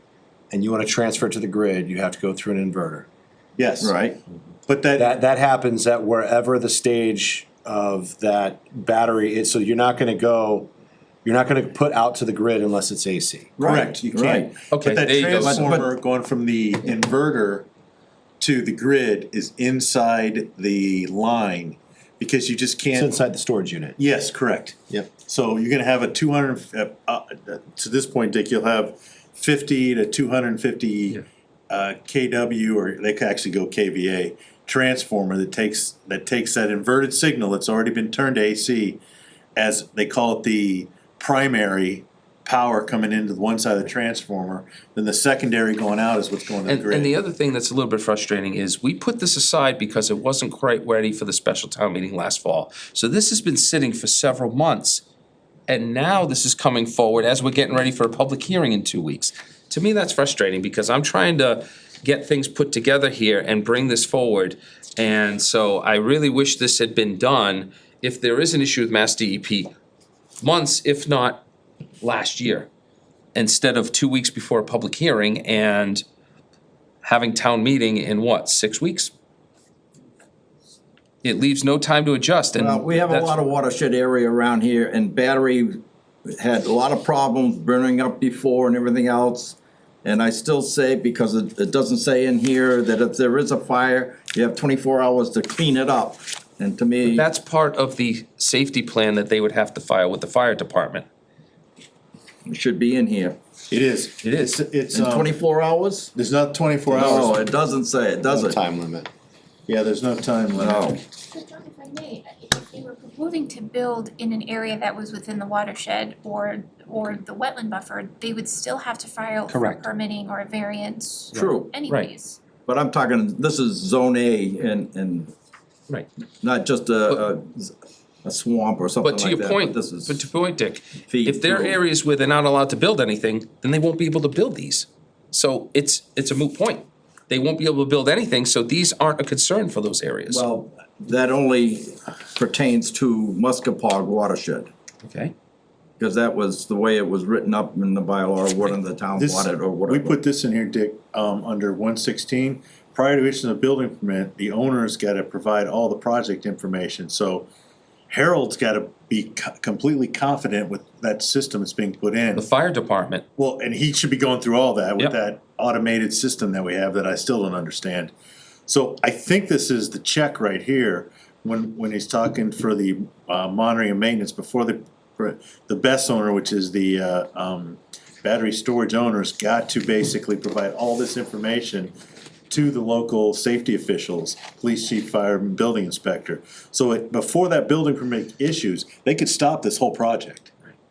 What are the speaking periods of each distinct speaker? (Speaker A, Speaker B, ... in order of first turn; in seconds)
Speaker A: 0.5-3.1, 5.0-10.7, 11.2-13.6, 22.9-24.0, 108.2-109.1
Speaker B: 3.6-3.9, 4.7-5.1, 13.6-17.7, 18.4-23.2, 24.0-39.0, 39.5-47.1, 103.7-105.3, 106.1-107.4, 109.7-111.0, 149.2-157.5, 158.1-162.5, 163.4-168.1, 168.7-181.9, 182.5-190.5
Speaker C: 3.8-4.2, 13.6-14.6, 15.4-15.8, 82.5-97.2, 102.5-103.4, 104.9-106.1, 106.9-108.6, 110.6-111.0, 121.3-121.8, 122.7-125.3, 126.4-130.2, 131.1-131.8, 140.3-144.7, 146.0-150.2
Speaker D: 14.7-15.7, 46.6-55.0, 55.7-69.7, 70.4-71.4, 72.0-72.7, 73.3-76.0, 77.0-79.1, 81.2-83.3, 97.1-101.0, 104.2-104.6, 119.5-119.8, 121.3-122.1, 129.0-140.4, 145.0-145.3, 162.3-163.2
Speaker E: 111.2-122.4